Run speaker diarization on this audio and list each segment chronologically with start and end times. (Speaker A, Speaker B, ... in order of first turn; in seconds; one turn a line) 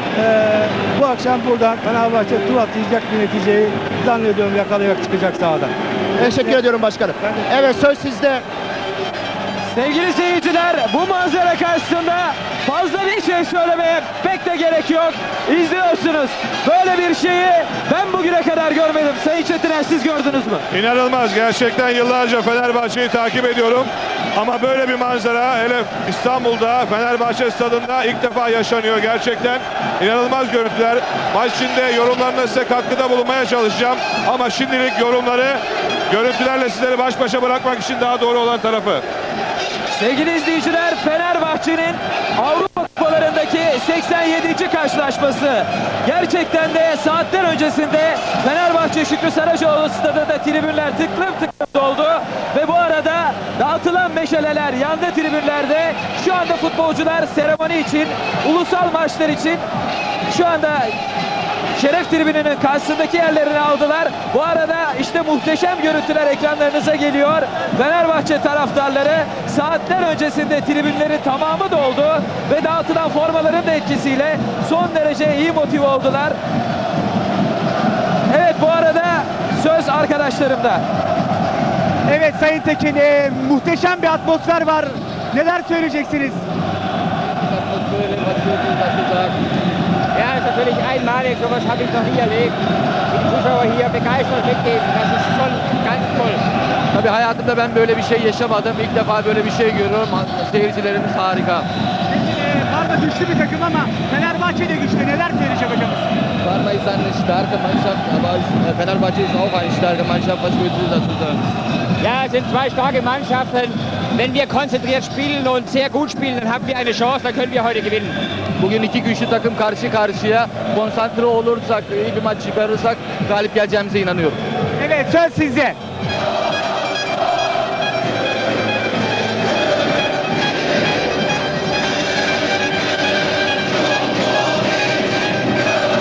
Speaker A: 0.1-6.6
Speaker B: 6.2-8.4
Speaker C: 9.7-20.6
Speaker D: 20.7-39.0
Speaker C: 39.9-59.6
Speaker C: 60.3-60.9
Speaker C: 61.7-76.4
Speaker C: 78.3-80.8
Speaker E: 82.0-86.4
Speaker F: 87.2-89.4
Speaker G: 90.2-92.6
Speaker G: 93.1-96.4
Speaker F: 96.9-101.7
Speaker E: 102.1-106.2
Speaker F: 106.4-111.4
Speaker G: 112.0-118.2
Speaker F: 118.6-124.4
Speaker E: 124.8-125.8